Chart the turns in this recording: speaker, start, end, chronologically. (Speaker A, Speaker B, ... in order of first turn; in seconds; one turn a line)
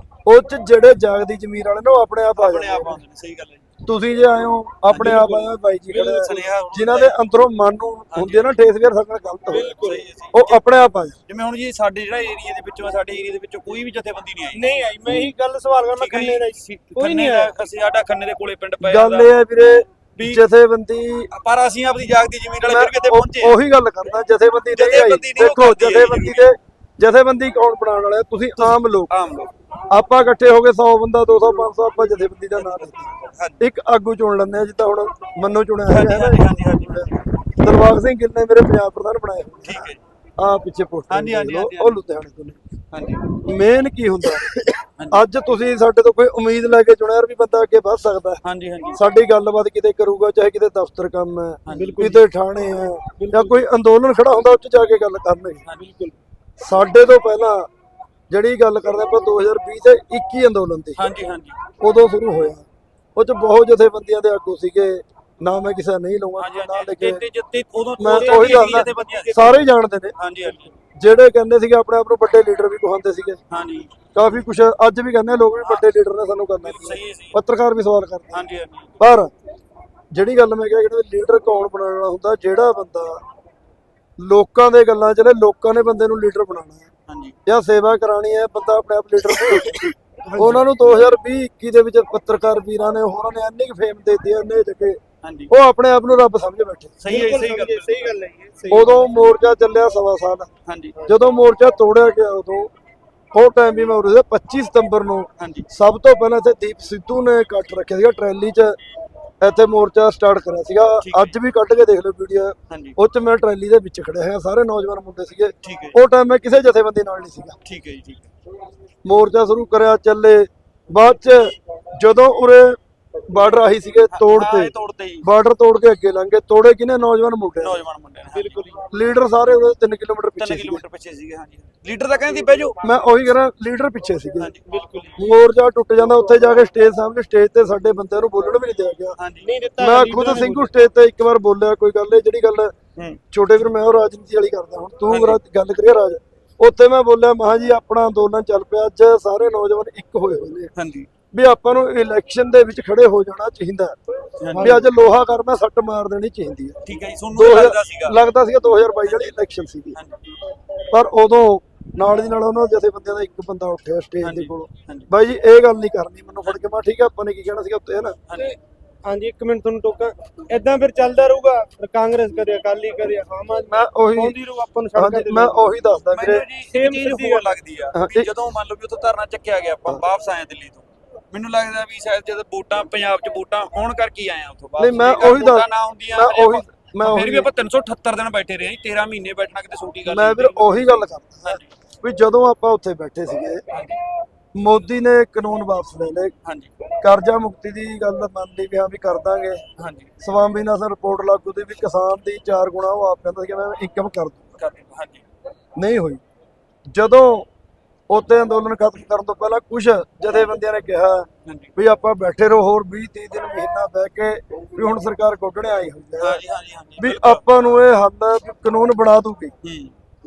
Speaker A: 0.3-3.0
Speaker B: 2.4-3.7
Speaker A: 3.9-9.7
Speaker B: 4.9-5.3
Speaker C: 5.0-6.5
Speaker B: 6.2-7.2
Speaker B: 8.1-8.5
Speaker C: 9.5-10.1
Speaker B: 9.8-10.6
Speaker A: 10.3-11.2
Speaker B: 11.3-15.3
Speaker C: 14.5-17.6
Speaker B: 15.9-19.3
Speaker A: 18.8-21.3
Speaker B: 20.2-20.4
Speaker B: 21.3-23.6
Speaker A: 22.6-29.1
Speaker B: 24.7-26.5
Speaker B: 28.6-29.5
Speaker A: 29.9-42.6
Speaker B: 32.5-33.6
Speaker B: 35.9-37.2
Speaker B: 39.6-40.0
Speaker B: 41.1-42.0
Speaker B: 42.9-43.3
Speaker A: 43.4-48.4
Speaker B: 45.0-45.2
Speaker B: 48.4-49.0
Speaker A: 49.0-55.6
Speaker B: 51.7-52.0
Speaker C: 51.7-52.3
Speaker C: 53.2-53.7
Speaker C: 55.8-56.2
Speaker A: 56.6-57.7
Speaker A: 58.3-61.0
Speaker B: 61.0-61.6
Speaker A: 61.8-67.2
Speaker B: 66.4-69.6
Speaker A: 68.0-70.2
Speaker C: 68.0-69.7
Speaker B: 70.2-70.7
Speaker C: 70.4-70.7
Speaker A: 71.0-73.4
Speaker B: 73.5-74.0
Speaker A: 74.2-78.5
Speaker B: 75.6-75.9
Speaker B: 76.6-77.4
Speaker B: 78.3-79.0
Speaker A: 79.0-79.3
Speaker A: 80.1-83.2
Speaker A: 84.2-86.9
Speaker B: 87.1-87.4
Speaker A: 87.5-95.0
Speaker C: 90.3-90.7
Speaker B: 95.2-95.5
Speaker A: 95.5-97.2
Speaker B: 97.0-98.2
Speaker C: 97.1-99.4
Speaker A: 98.7-100.5
Speaker B: 100.7-101.0
Speaker A: 101.1-102.7
Speaker A: 103.3-108.8
Speaker B: 105.4-105.7
Speaker A: 109.4-117.6
Speaker B: 111.0-111.4
Speaker B: 112.7-113.0
Speaker B: 115.6-116.0
Speaker B: 117.6-118.3
Speaker A: 119.0-122.8
Speaker A: 123.3-127.8
Speaker B: 124.1-125.3
Speaker B: 127.6-128.6
Speaker C: 128.3-128.9
Speaker A: 128.9-130.8
Speaker B: 130.4-132.8
Speaker A: 132.8-134.5
Speaker B: 134.4-134.7
Speaker C: 134.7-135.2
Speaker A: 135.2-139.2
Speaker B: 139.2-139.5
Speaker C: 139.4-140.8
Speaker A: 139.8-142.7
Speaker A: 143.3-150.7
Speaker B: 145.1-145.4
Speaker B: 150.8-151.1
Speaker A: 151.3-154.0
Speaker B: 154.4-154.8
Speaker C: 154.5-154.9
Speaker A: 154.5-156.8
Speaker B: 156.8-158.2
Speaker A: 157.3-160.0
Speaker B: 159.0-159.4
Speaker B: 159.9-160.2
Speaker A: 160.9-168.2
Speaker B: 164.2-165.1
Speaker B: 168.3-168.6
Speaker C: 169.1-175.8
Speaker A: 173.7-174.4
Speaker A: 174.9-176.4
Speaker B: 176.1-191.7
Speaker C: 176.7-177.6
Speaker A: 177.9-178.3
Speaker A: 184.8-187.5
Speaker A: 190.1-193.6
Speaker B: 193.7-194.0
Speaker A: 194.6-196.3
Speaker B: 196.4-196.7
Speaker A: 197.0-199.6
Speaker B: 199.8-200.1
Speaker A: 200.2-204.5
Speaker B: 204.6-205.3
Speaker A: 205.8-206.2
Speaker A: 206.9-207.5
Speaker A: 208.1-216.4
Speaker B: 211.4-211.8
Speaker B: 216.2-217.4
Speaker A: 217.0-219.5
Speaker B: 219.6-219.9